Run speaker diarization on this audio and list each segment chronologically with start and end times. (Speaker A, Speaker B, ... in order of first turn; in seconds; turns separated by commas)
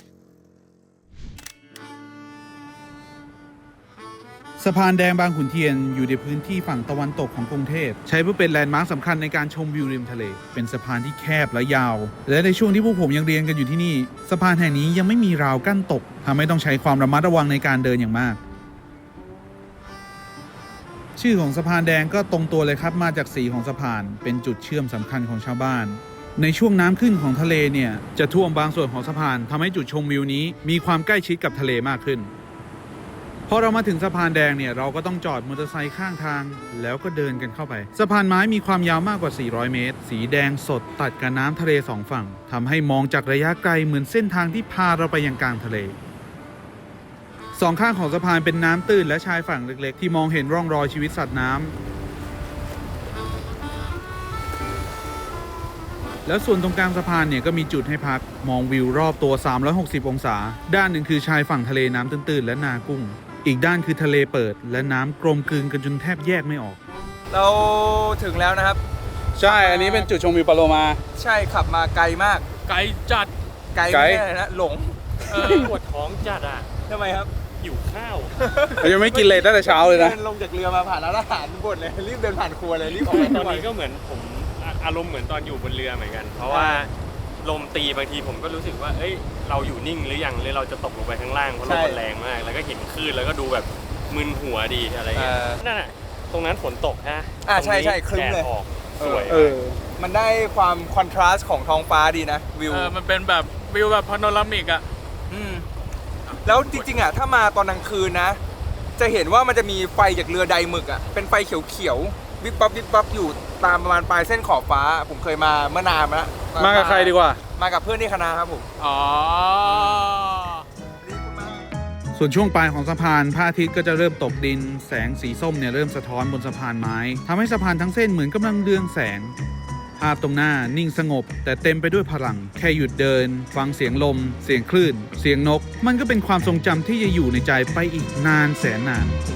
Speaker A: 4.6-18.4, Speaker A: 21.2-32.3, Speaker A: 33.5-46.0, Speaker A: 47.5-51.8, Speaker A: 56.2-66.8, Speaker B: 67.3-68.8, Speaker A: 69.4-71.0, Speaker B: 69.4-70.1, Speaker B: 71.2-72.5, Speaker C: 72.7-73.3, Speaker B: 73.7-75.0, Speaker A: 73.9-74.2, Speaker C: 75.3-75.7, Speaker D: 75.4-76.7, Speaker B: 76.9-77.3, Speaker D: 77.6-78.4, Speaker B: 78.4-83.7, Speaker A: 78.8-80.1, Speaker D: 83.1-99.6, Speaker B: 86.5-86.8, Speaker B: 91.6-92.0, Speaker B: 95.2-95.6, Speaker B: 97.4-103.0, Speaker C: 102.7-104.8, Speaker B: 105.3-105.7, Speaker C: 106.2-107.0, Speaker B: 106.5-108.4, Speaker B: 109.0-118.7, Speaker A: 116.6-117.4, Speaker C: 118.8-120.7, Speaker B: 121.0-121.7, Speaker A: 122.2-129.3, Speaker A: 130.0-139.2